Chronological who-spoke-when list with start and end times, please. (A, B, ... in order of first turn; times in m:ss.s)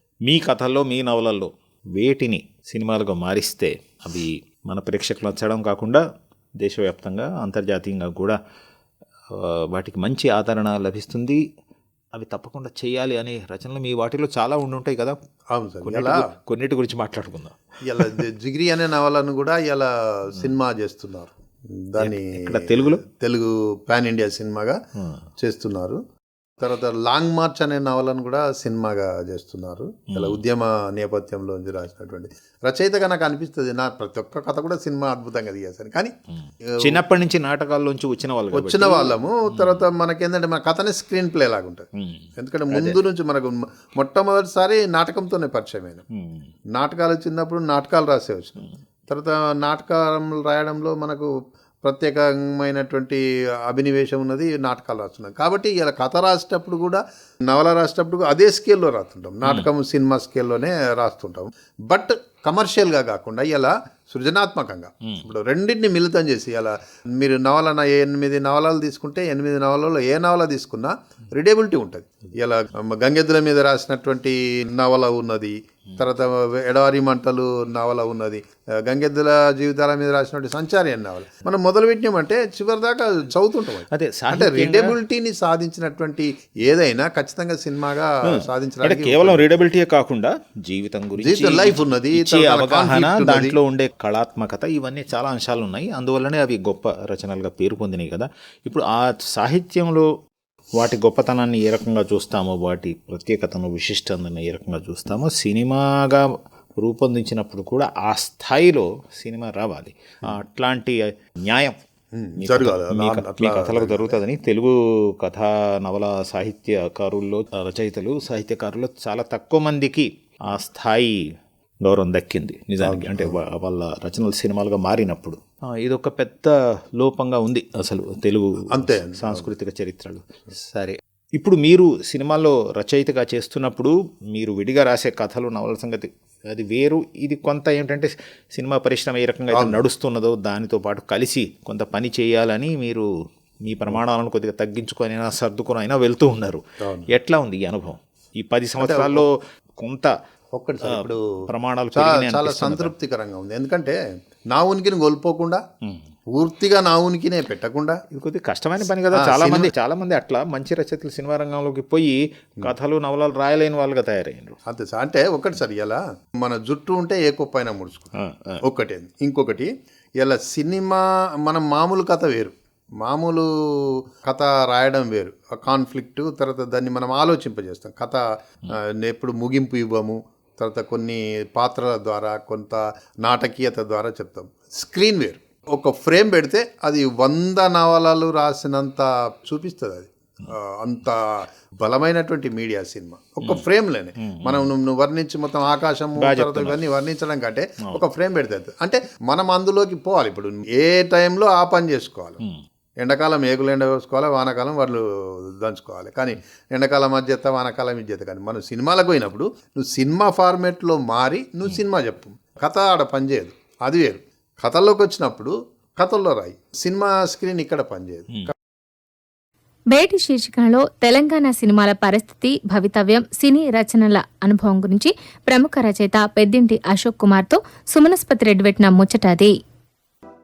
0:00.3-0:06.0 A
0:06.6-0:08.4 A
0:09.3-0:11.4 A
0:12.1-0:15.2 A
0:15.5-0:16.3 B
0:15.8-0:18.2 A
0:17.9-0:21.3 B
0:21.9-0:24.8 B
0:22.0-0:23.0 A
0:25.4-0:26.0 B
0:26.6-0:36.1 B
0:30.1-0:30.4 A
0:36.3-0:39.8 A
0:38.5-0:41.9 B
0:42.0-0:43.0 A
0:42.4-0:46.0 B
0:46.2-0:46.5 A
0:46.8-0:51.3 B
0:51.8-1:29.5 B
0:59.4-0:59.7 A
1:23.9-1:24.9 A
1:28.2-1:40.1 A
1:31.2-1:33.6 B
1:40.8-1:51.8 A
1:52.1-1:54.2 B
1:52.4-2:01.2 A
2:01.8-2:23.1 A
2:02.8-2:03.4 B
2:08.7-2:09.5 B
2:19.5-2:19.8 B
2:23.7-2:29.3 A
2:26.8-2:27.1 B
2:28.8-2:29.3 B
2:29.8-2:30.1 A
2:30.6-2:31.2 B
2:30.8-2:32.9 A
2:31.9-2:34.0 B
2:34.5-2:35.6 B
2:36.3-2:38.0 B
2:38.1-2:44.6 A
2:39.1-2:39.7 B
2:44.7-2:48.1 B
2:48.2-2:48.6 A
2:48.6-3:22.4 B
3:14.2-3:14.7 A
3:16.2-3:16.9 A
3:23.0-3:25.0 B
3:25.6-3:38.5 B
3:39.9-3:49.5 C